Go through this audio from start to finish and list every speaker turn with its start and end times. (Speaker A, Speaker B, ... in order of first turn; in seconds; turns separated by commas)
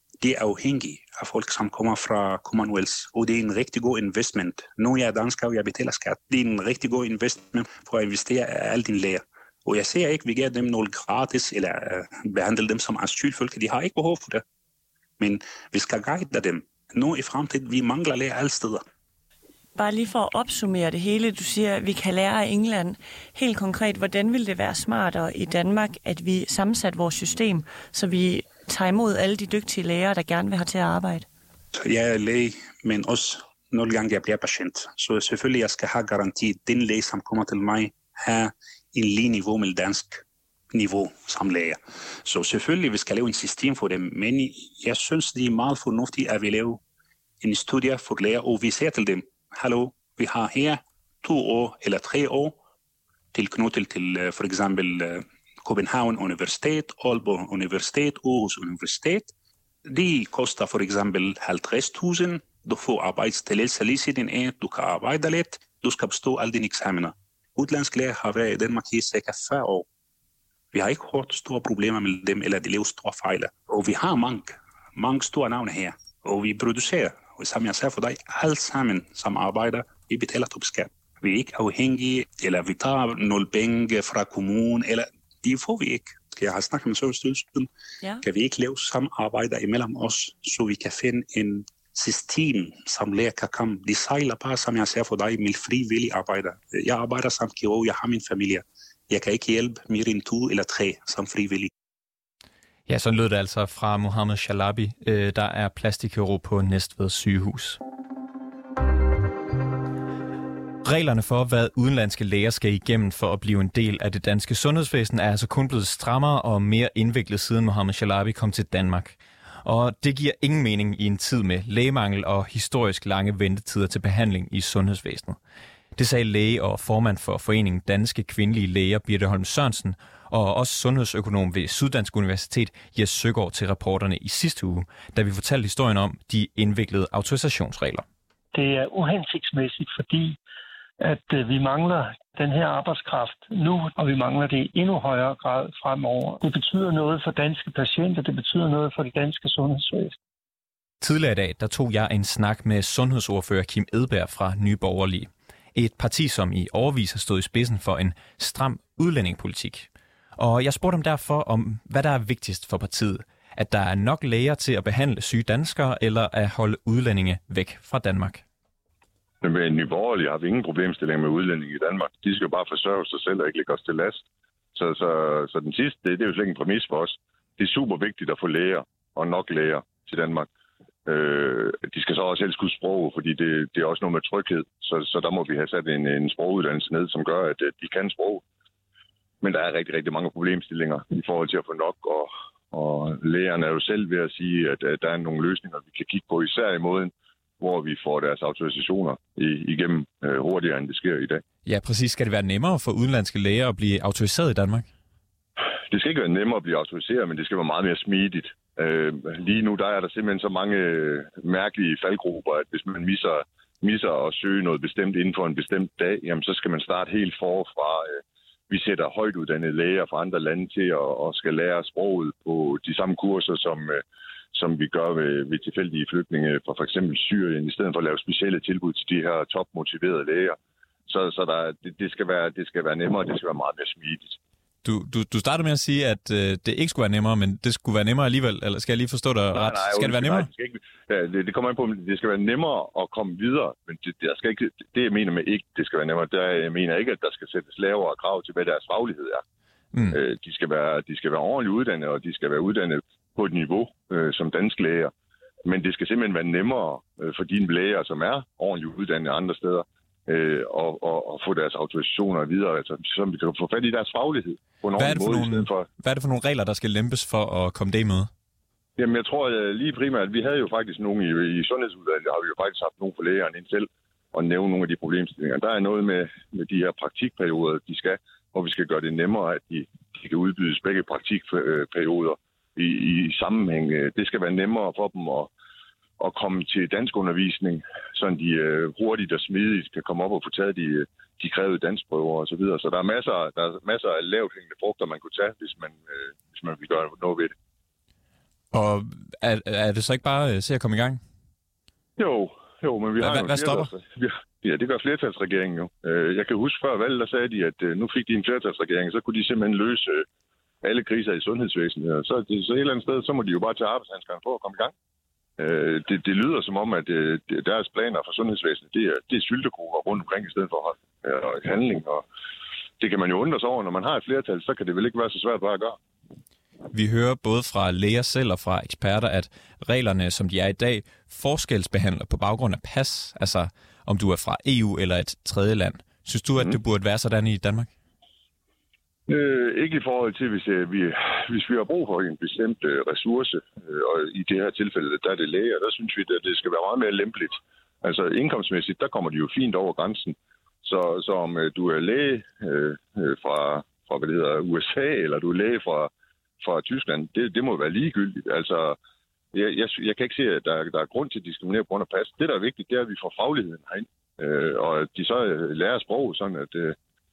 Speaker A: 0.2-14.4, Speaker A: 15.2-18.8, Speaker B: 19.8-31.3, Speaker A: 31.7-46.8, Speaker A: 47.4-52.6, Speaker A: 53.3-59.3, Speaker A: 59.9-69.9, Speaker A: 70.7-87.7, Speaker A: 88.2-101.7, Speaker C: 102.9-107.8, Speaker C: 110.8-125.4, Speaker C: 126.0-138.0, Speaker D: 138.5-140.4, Speaker D: 141.0-150.2, Speaker C: 151.0-168.4, Speaker E: 169.4-180.5, Speaker E: 181.1-188.4, Speaker E: 189.4-201.4, Speaker C: 201.7-204.9, Speaker E: 205.9-224.0, Speaker E: 224.5-234.4, Speaker C: 234.8-240.5, Speaker E: 239.5-249.4, Speaker C: 249.9-250.2, Speaker E: 250.1-255.1, Speaker E: 255.7-265.9, Speaker C: 265.0-268.3, Speaker E: 269.0-285.5, Speaker E: 286.2-297.6, Speaker C: 298.7-301.2, Speaker E: 302.2-310.3, Speaker C: 303.2-303.9, Speaker E: 310.8-314.9, Speaker E: 315.6-322.2, Speaker E: 323.0-326.0, Speaker C: 326.9-337.9, Speaker E: 339.3-359.0, Speaker E: 359.5-367.0